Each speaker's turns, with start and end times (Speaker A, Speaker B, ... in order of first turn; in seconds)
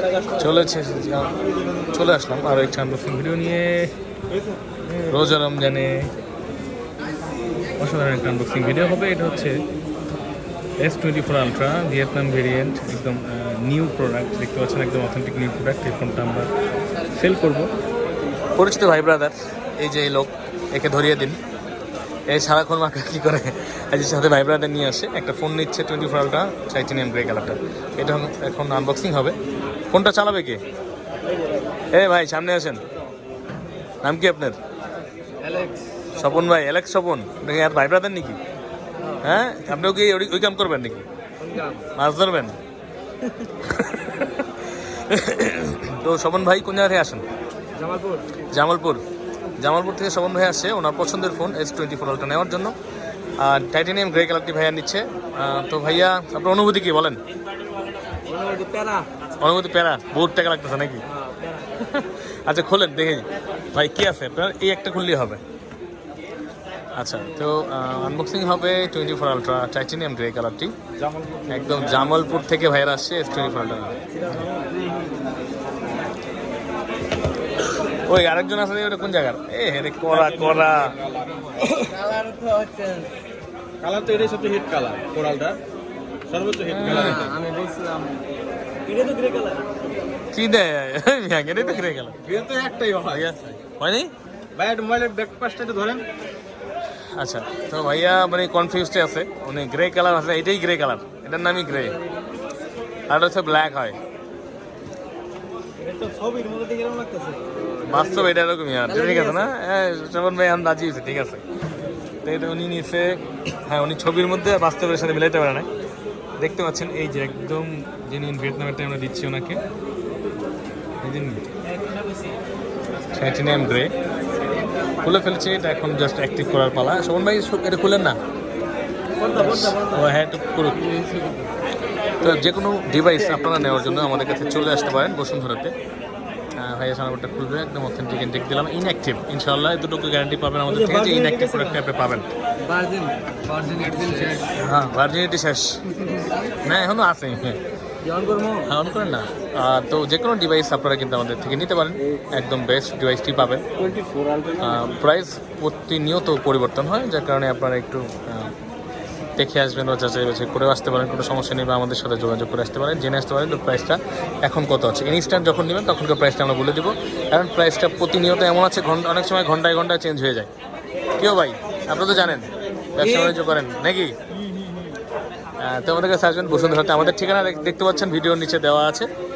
Speaker A: 0.3-1.4, 1.9-3.9, 5.0-6.1, 7.8-9.6, 10.8-16.5, 17.1-17.7, 18.6-21.4, 22.3-29.4, 29.9-30.6, 31.9-32.8, 34.0-34.6, 36.1-38.4, 39.2-41.0, 41.9-42.6, 43.6-47.2, 48.4-49.0, 49.6-52.8, 53.4-57.2, 59.4-61.0, 61.8-65.4, 67.0-70.7, 71.5-74.5, 77.8-81.0, 86.8-87.3, 90.3-92.2, 93.0-94.1, 97.1-102.0, 103.1-104.0, 107.8-111.4, 112.2-115.7, 116.4-119.6, 121.0-121.4, 123.1-123.9, 125.0-128.2, 129.2-131.0, 132.2-135.7, 136.6-142.3, 144.5-147.6, 148.6-153.9, 154.6-158.6, 159.4-170.5, 171.2-174.2, 175.6-179.1
Speaker B: 35.4-36.4, 39.0-39.4, 41.4-41.9, 47.8-48.4, 58.2-59.1, 61.1-61.9, 74.2-74.7, 81.6-83.2, 86.9-88.2, 88.8-89.7, 101.9-102.2, 105.8-108.3, 108.9-109.5, 129.2-130.0, 130.9-131.5, 140.7-141.8, 142.6-144.6, 148.0-148.7, 153.9-154.6
Speaker C: 71.0-72.0, 80.1-81.6, 83.8-85.6, 86.3-87.4, 92.2-93.3, 94.5-96.0